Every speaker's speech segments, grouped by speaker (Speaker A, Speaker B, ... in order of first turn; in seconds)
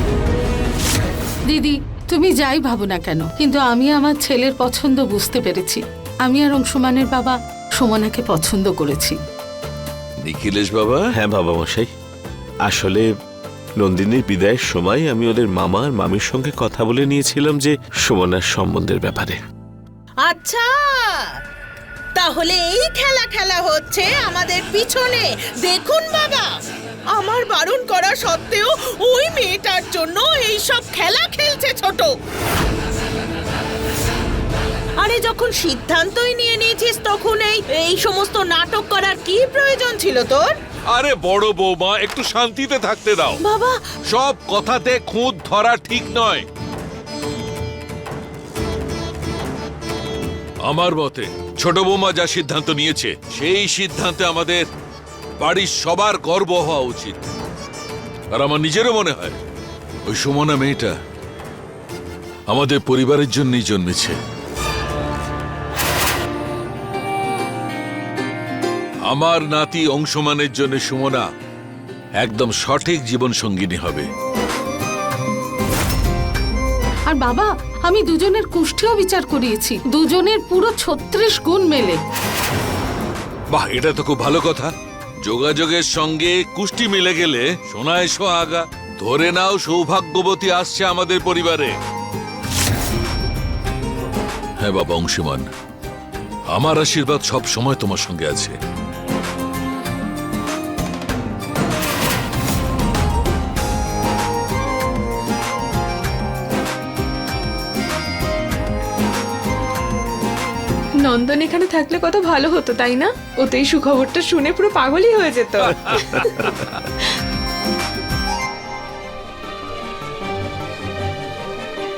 Speaker A: 1.5-9.2, 77.1-82.0
Speaker B: 10.2-11.1, 40.9-43.4, 44.1-46.5, 50.6-54.6, 55.4-57.2, 58.3-59.4, 60.1-60.9, 62.5-64.2, 69.1-71.3, 72.2-74.1, 83.5-84.7, 85.2-91.7, 94.6-95.4, 96.5-98.5
Speaker C: 11.2-11.9, 12.7-13.1, 13.8-19.4
Speaker D: 20.2-21.3, 22.1-26.5, 27.1-32.2, 35.0-40.5, 43.4-43.8
Speaker E: 111.0-116.3